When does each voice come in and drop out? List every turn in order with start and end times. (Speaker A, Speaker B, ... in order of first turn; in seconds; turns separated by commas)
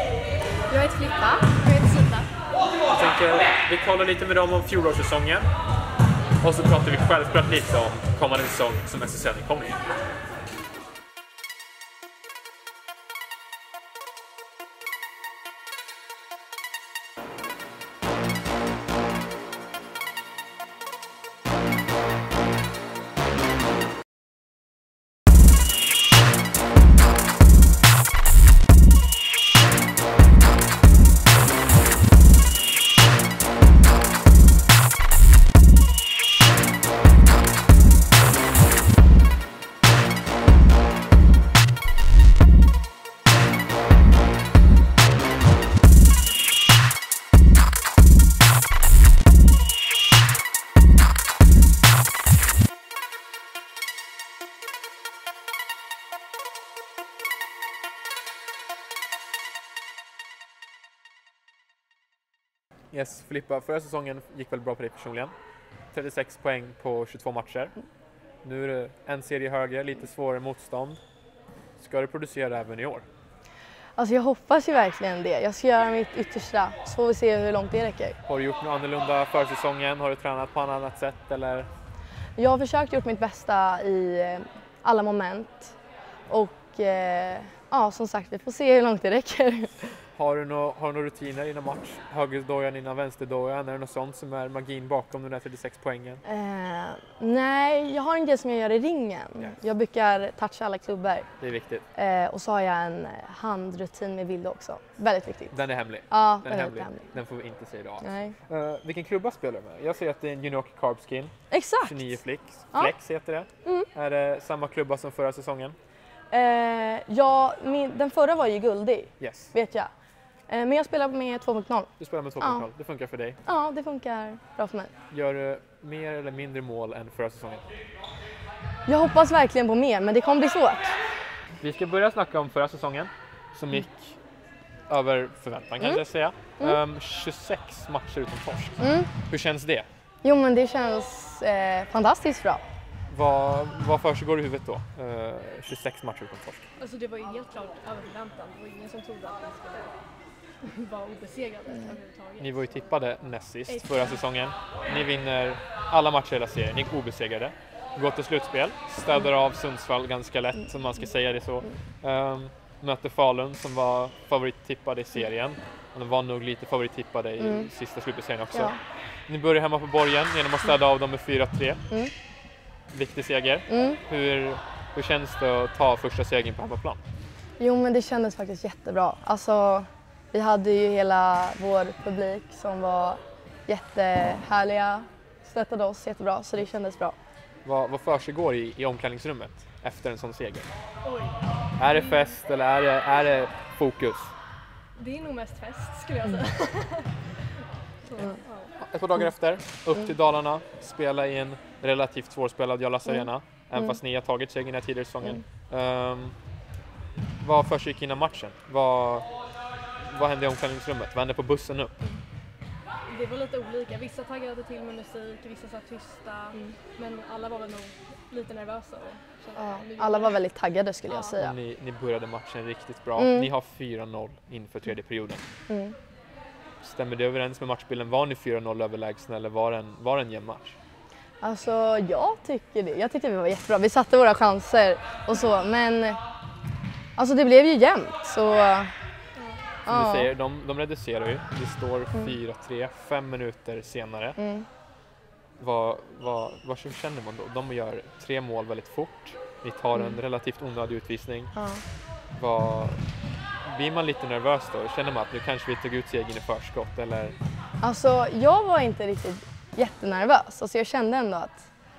Speaker A: 0.7-2.2, Speaker B: 2.9-5.5, Speaker B: 6.4-9.8, Speaker B: 62.9-65.3, Speaker B: 65.9-67.8, Speaker B: 68.4-71.0, Speaker B: 71.8-73.0, Speaker A: 74.0-78.2, Speaker B: 78.2-81.7, Speaker A: 82.4-85.8, Speaker A: 86.3-89.9, Speaker B: 90.1-96.2, Speaker A: 96.2-101.3, Speaker B: 101.4-101.8, Speaker A: 101.9-107.1, Speaker B: 105.5-115.8, Speaker A: 108.0-108.3, Speaker A: 111.5-112.2, Speaker A: 112.7-113.0, Speaker A: 113.6-113.9, Speaker A: 116.3-119.9, Speaker B: 119.2-119.5, Speaker A: 120.5-122.7, Speaker B: 122.0-123.4, Speaker A: 123.4-124.9, Speaker B: 125.1-127.7, Speaker A: 128.9-131.0, Speaker B: 131.6-134.2, Speaker B: 134.9-139.9, Speaker A: 138.8-139.1, Speaker A: 140.2-142.6, Speaker B: 143.1-146.7, Speaker C: 146.8-150.0, Speaker C: 150.6-152.8, Speaker B: 152.4-171.8, Speaker C: 153.7-154.2, Speaker A: 167.4-167.7, Speaker B: 172.9-177.0, Speaker A: 173.7-174.0, Speaker A: 177.6-187.2, Speaker B: 187.6-190.7, Speaker C: 191.0-192.4, Speaker B: 191.8-194.3, Speaker C: 195.0-197.2, Speaker C: 198.0-198.8, Speaker B: 198.8-206.4, Speaker A: 203.1-204.0, Speaker B: 207.4-209.3, Speaker B: 210.0-212.0, Speaker C: 213.1-220.4, Speaker A: 219.6-221.6, Speaker B: 221.3-225.4, Speaker A: 223.2-223.5, Speaker A: 225.7-226.0, Speaker B: 226.8-230.8, Speaker A: 231.4-236.2, Speaker A: 237.2-238.9, Speaker C: 239.4-239.6, Speaker B: 239.8-244.4, Speaker A: 239.9-240.3, Speaker A: 244.4-244.7, Speaker B: 245.6-251.6, Speaker A: 251.5-251.8, Speaker B: 252.3-253.0, Speaker B: 253.6-257.4, Speaker A: 257.8-261.7